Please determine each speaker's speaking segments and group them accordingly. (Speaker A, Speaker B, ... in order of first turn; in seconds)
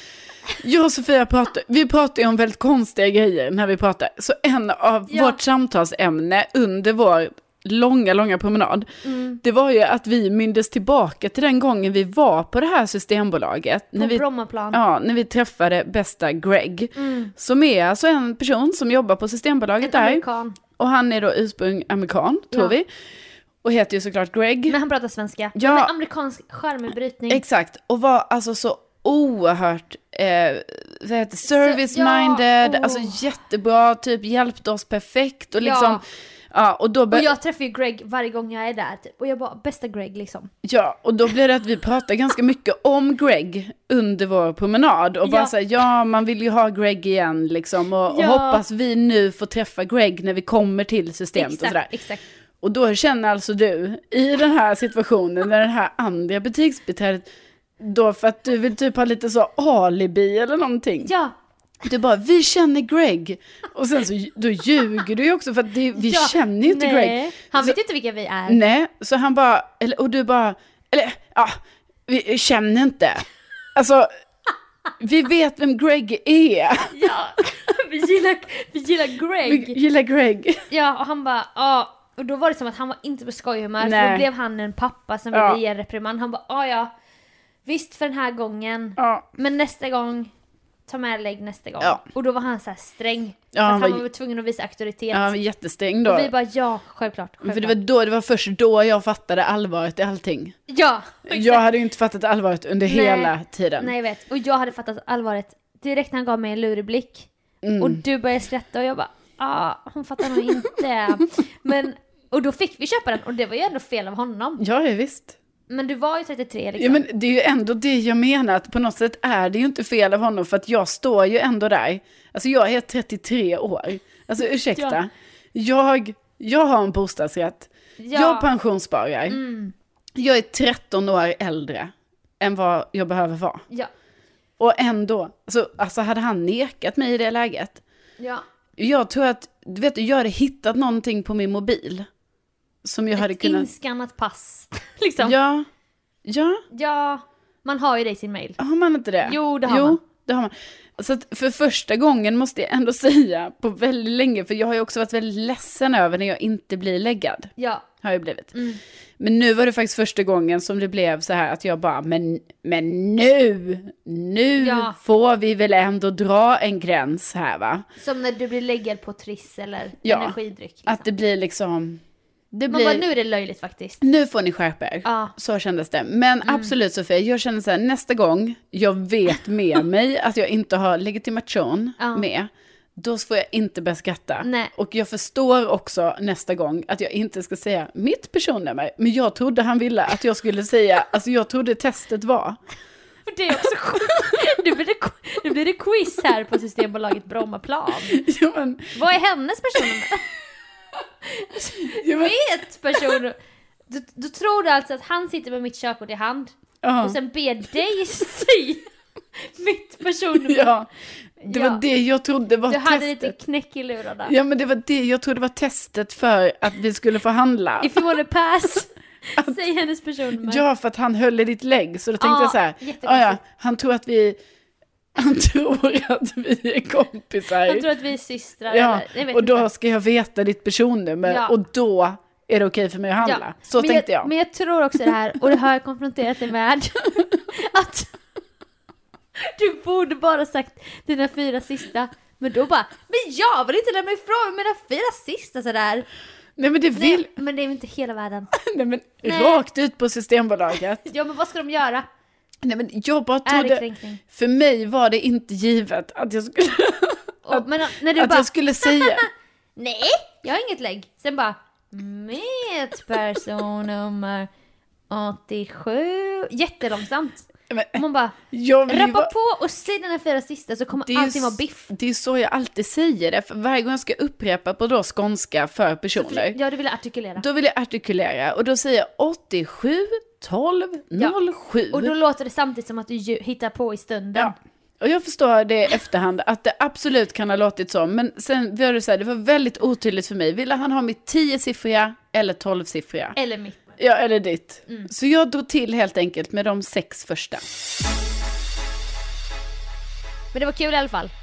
Speaker A: 0.5-8.9, 9.4-20.2, 20.8-22.9, 23.6-24.8, 25.5-25.9, 27.3-37.3, 40.6-51.9, 52.6-57.3, 57.8-61.1, 61.8-67.8, 68.5-74.1, 75.0-77.0, 79.4-80.6, 83.8-84.2, 85.3-85.6, 89.0-89.2, 93.5-94.0, 95.1-96.3, 97.4-100.6, 101.3-103.9, 107.6-108.0, 114.6-115.4, 116.8-129.4, 130.2-133.6, 134.6-137.8, 138.8-142.1, 142.8-143.7, 145.2-145.7, 146.2-146.6, 148.6-157.5, 158.0-158.5, 159.2-167.8, 170.0-172.0, 172.5-173.0, 174.0-192.6, 198.0-198.9, 201.8-202.4, 206.8-207.2, 210.4-210.9, 211.4-213.3, 214.2-218.2, 220.4-224.4, 225.1-227.9, 228.7-234.3, 246.6-247.3, 248.5-251.0, 252.6-259.2, 267.7-269.3, 271.0-276.6, 277.4-282.1, 284.3-293.4, 294.0-297.7
Speaker B: 5.1-5.4, 9.0-9.4, 14.0-14.8, 16.9-17.3, 19.8-20.6, 22.5-22.8, 24.7-27.4, 31.4-33.2, 35.6-36.0, 37.1-40.5, 45.2-45.5, 48.1-48.6, 51.4-52.2, 61.0-61.3, 65.9-68.6, 76.8-79.8, 80.7-86.9, 87.7-90.3, 90.9-95.3, 96.0-97.8, 100.7-101.7, 102.8-107.3, 107.8-114.6, 115.7-117.0, 128.0-128.5, 129.3-129.7, 138.2-138.4, 143.2-145.3, 146.7-148.6, 149.2-150.0, 157.6-157.9, 158.5-158.8, 164.6-165.0, 168.0-171.1, 172.7-174.0, 175.0-175.3, 176.4-176.7, 182.0-182.2, 184.4-184.7, 193.3-198.2, 198.9-200.2, 201.2-203.4, 203.9-210.7, 211.4-211.8, 212.7-214.3, 217.8-220.6, 222.2-223.4, 227.6-229.7, 231.2-231.6, 233.2-238.1, 239.4-246.1, 246.9-248.5, 249.2-249.6, 251.0-252.1, 253.4-254.2, 257.4-264.5, 265.1-271.9, 276.1-277.4, 281.9-284.5, 293.4-294.0, 300.5-301.3